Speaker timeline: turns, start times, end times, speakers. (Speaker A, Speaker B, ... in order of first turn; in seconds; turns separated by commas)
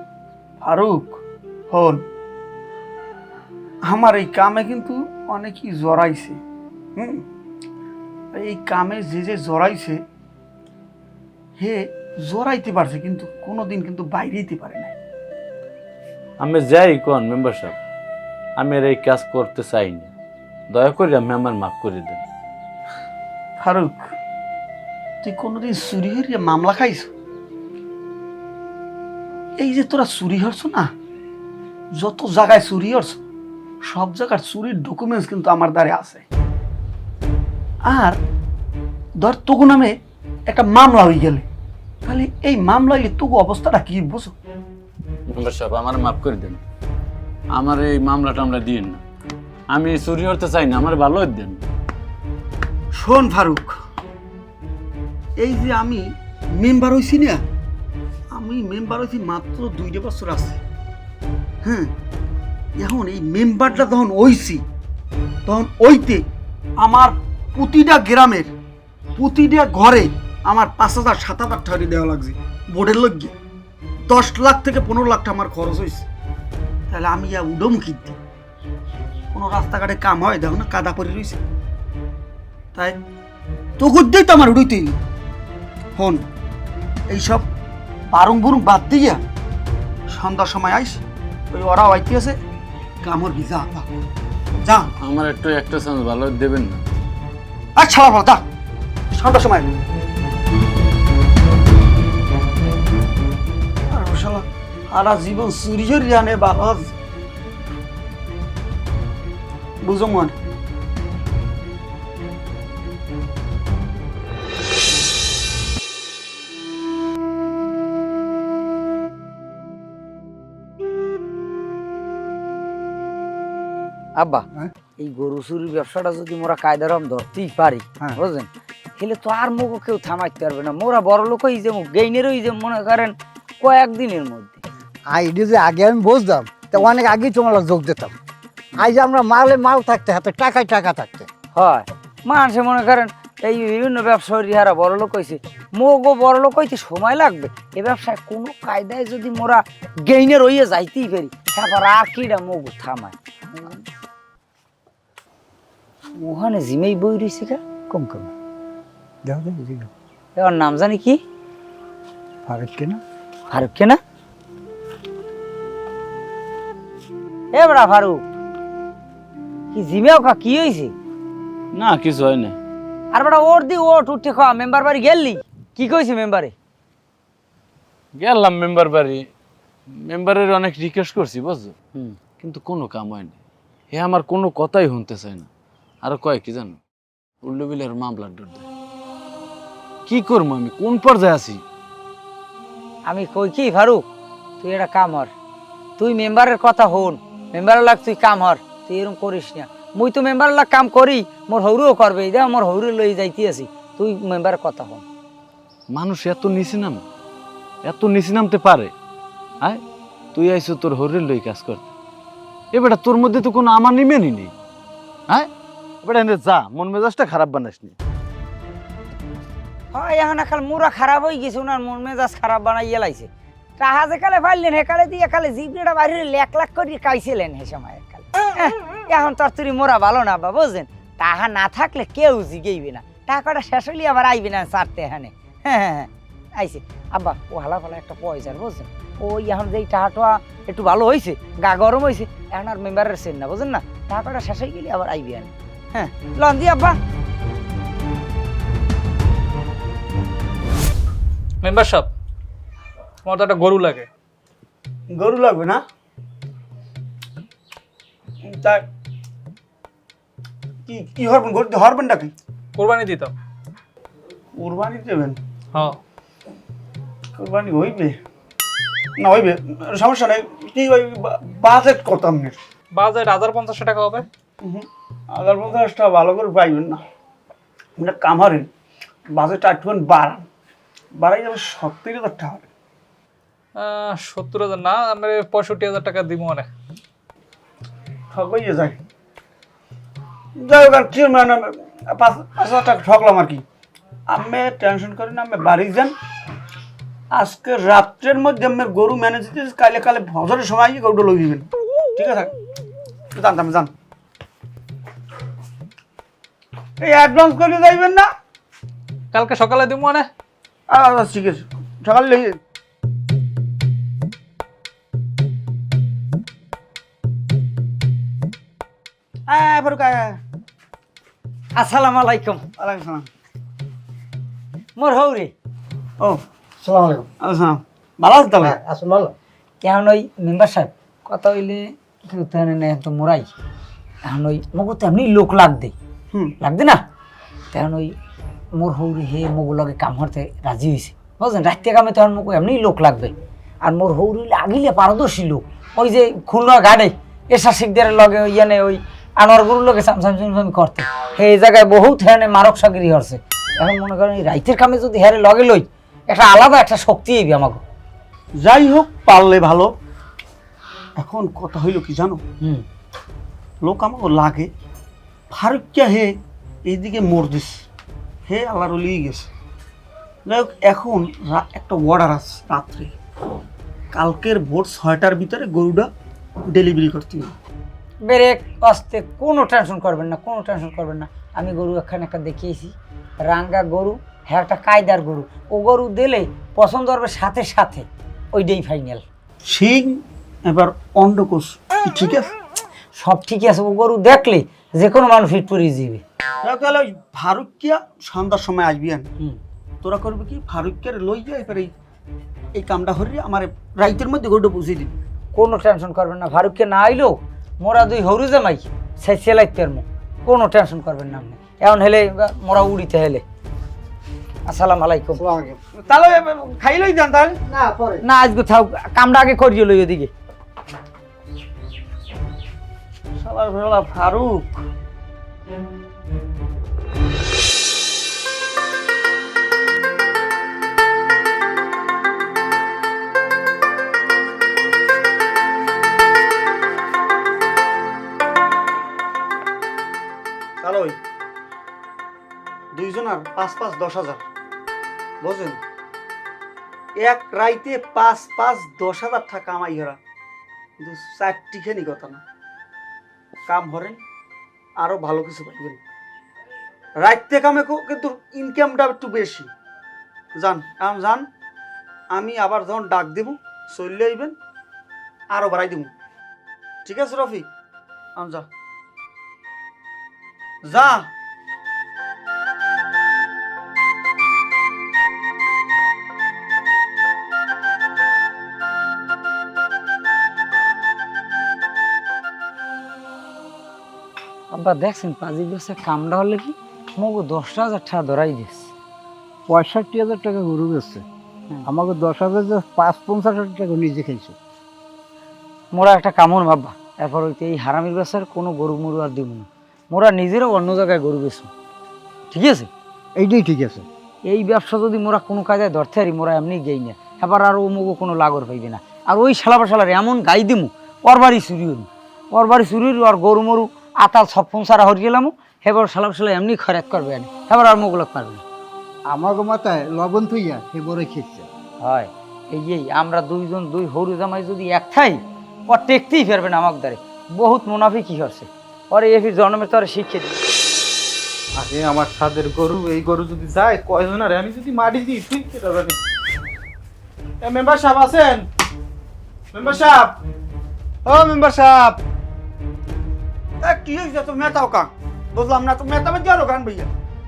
Speaker A: 0.6-1.2, Speaker A: 1.7-2.0, Speaker A: 3.9-6.4, Speaker A: 7.0-7.2, Speaker A: 8.3-10.0, Speaker A: 11.6-14.9, Speaker B: 16.4-17.8, Speaker B: 18.6-20.1, Speaker B: 20.7-22.2, Speaker A: 23.6-24.1, Speaker A: 25.2-27.1, Speaker A: 29.6-30.9, Speaker A: 31.9-33.2, Speaker A: 33.8-36.2, Speaker A: 37.8-38.2, Speaker A: 39.2-40.0, Speaker A: 40.5-41.5, Speaker A: 42.0-44.3, Speaker B: 45.3-46.6, Speaker B: 47.5-49.0, Speaker B: 49.7-51.6, Speaker A: 52.9-53.7, Speaker A: 55.4-57.4, Speaker A: 58.3-60.6, Speaker A: 61.6-61.9, Speaker A: 62.8-64.6, Speaker A: 65.5-66.2, Speaker A: 66.8-68.5, Speaker A: 69.2-73.3, Speaker A: 74.1-76.0, Speaker A: 76.9-78.2, Speaker A: 79.3-81.4, Speaker A: 83.8-85.0, Speaker A: 86.0-86.2, Speaker A: 87.1-87.5, Speaker A: 88.1-89.2, Speaker A: 90.1-92.4, Speaker A: 93.0-93.9, Speaker A: 94.6-94.9, Speaker B: 95.0-96.8, Speaker A: 97.8-98.4, Speaker A: 99.1-99.8, Speaker A: 103.9-106.9, Speaker A: 109.8-110.3, Speaker C: 124.2-124.5, Speaker C: 125.0-134.6, Speaker D: 135.1-138.1, Speaker D: 138.8-141.3, Speaker C: 141.5-153.9, Speaker C: 156.2-158.3, Speaker D: 159.2-159.9, Speaker C: 160.4-161.2, Speaker D: 162.4-163.0, Speaker C: 163.5-164.0, Speaker C: 167.5-168.2, Speaker C: 169.7-170.9, Speaker B: 171.7-172.6, Speaker C: 173.1-176.5, Speaker B: 178.2-179.3, Speaker B: 179.9-181.7, Speaker B: 182.4-183.4, Speaker B: 183.9-185.5, Speaker B: 186.0-186.8, Speaker B: 187.4-188.7, Speaker B: 190.1-191.6, Speaker C: 193.1-194.0, Speaker C: 194.6-195.3, Speaker C: 196.0-205.0, Speaker B: 205.9-207.0, Speaker B: 207.8-208.9, Speaker B: 210.3-211.9, Speaker B: 212.7-214.5, Speaker B: 216.0-217.9, Speaker C: 219.9-247.0, Speaker E: 251.6-252.1, Speaker E: 253.2-254.1, Speaker A: 255.1-255.8, Speaker A: 258.4-258.9, Speaker A: 260.9-262.3, Speaker E: 262.8-263.3, Speaker A: 264.6-265.4, Speaker A: 267.4-268.2, Speaker A: 269.2-272.6, Speaker E: 272.9-274.2, Speaker A: 274.6-277.0, Speaker A: 278.0-278.7, Speaker A: 279.3-280.4, Speaker A: 281.2-282.6, Speaker E: 283.8-286.7, Speaker A: 288.3-289.0, Speaker A: 290.6-293.6, Speaker A: 294.3-296.1, Speaker A: 297.3-302.5, Speaker A: 303.4-303.9, Speaker A: 307.0-308.3, Speaker E: 309.3-310.3, Speaker A: 310.9-312.6, Speaker A: 319.5-320.4, Speaker C: 321.8-322.6, Speaker A: 322.8-323.3, Speaker C: 324.9-325.5, Speaker D: 326.8-327.3, Speaker A: 327.4-328.8, Speaker D: 328.6-329.3, Speaker C: 329.8-333.5, Speaker C: 334.2-335.9, Speaker C: 336.6-337.0, Speaker C: 337.7-338.1, Speaker C: 338.7-357.8, Speaker A: 358.6-359.9, Speaker A: 361.2-362.4, Speaker A: 363.8-364.7, Speaker A: 365.5-366.4, Speaker A: 366.9-367.8, Speaker A: 368.5-369.5, Speaker A: 370.4-373.1, Speaker A: 374.1-376.1, Speaker A: 376.6-377.5, Speaker C: 378.2-389.2, Speaker A: 389.7-392.5, Speaker C: 393.1-396.2, Speaker A: 396.6-399.3, Speaker A: 400.0-401.9, Speaker A: 402.7-405.1, Speaker C: 405.5-413.4, Speaker C: 414.6-415.4, Speaker D: 415.4-415.8, Speaker A: 416.0-417.6, Speaker D: 417.7-418.2, Speaker C: 418.2-420.3, Speaker A: 423.4-424.8, Speaker A: 440.8-441.2, Speaker A: 442.9-444.4, Speaker A: 445.4-445.8, Speaker A: 447.2-450.2, Speaker A: 451.0-452.4, Speaker A: 453.7-454.2, Speaker A: 455.0-456.0, Speaker A: 457.2-459.7, Speaker A: 460.5-461.5, Speaker A: 462.3-464.5, Speaker A: 465.5-466.1, Speaker A: 467.0-467.7, Speaker A: 468.4-468.7, Speaker A: 470.9-471.3, Speaker C: 484.7-488.9, Speaker D: 489.7-491.2, Speaker D: 491.9-494.5, Speaker C: 495.9-501.7, Speaker C: 502.5-502.9, Speaker D: 503.4-504.1, Speaker C: 504.4-518.6, Speaker D: 519.3-521.7, Speaker C: 522.0-530.6, Speaker F: 531.8-536.2, Speaker F: 537.6-538.6, Speaker F: 539.7-540.4, Speaker F: 541.2-542.2, Speaker A: 543.8-547.1